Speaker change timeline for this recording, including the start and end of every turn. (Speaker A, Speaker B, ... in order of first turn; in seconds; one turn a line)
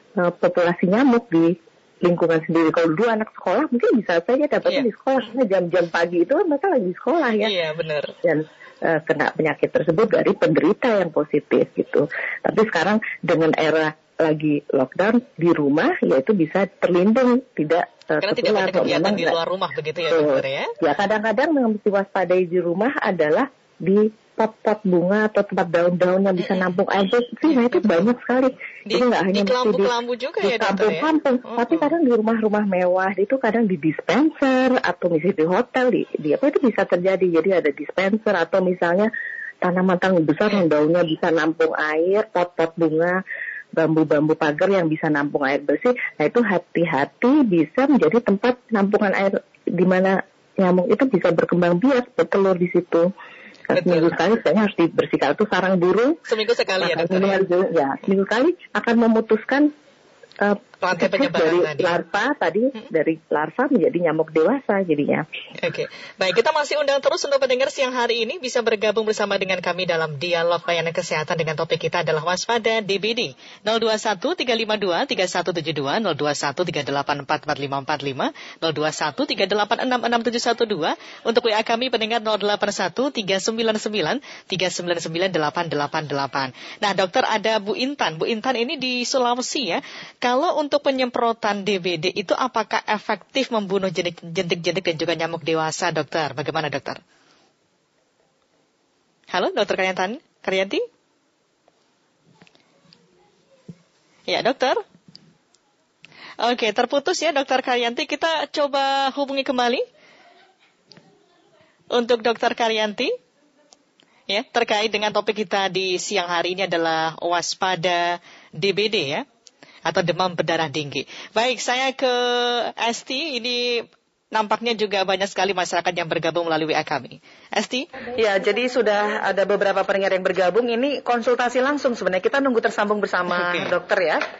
Speaker A: 0.2-7.5
Speaker B: 7.4-8.1
Speaker A: 8.2-19.4
Speaker B: 18.2-20.7
Speaker A: 20.1-39.1
Speaker B: 27.5-28.1
Speaker B: 28.9-31.9
Speaker A: 39.6-43.2
Speaker A: 43.7-53.1
Speaker A: 53.7-56.2
Speaker B: 53.7-54.1
Speaker B: 56.3-57.4
Speaker A: 56.8-59.7
Speaker A: 60.4-65.2
Speaker B: 60.8-62.0
Speaker B: 65.6-97.0
Speaker B: 99.3-100.8
Speaker B: 104.3-104.8
Speaker B: 106.4-109.8
Speaker B: 111.9-113.1
Speaker B: 114.3-119.2
Speaker B: 119.8-127.9
Speaker C: 128.1-134.2
Speaker B: 133.3-133.7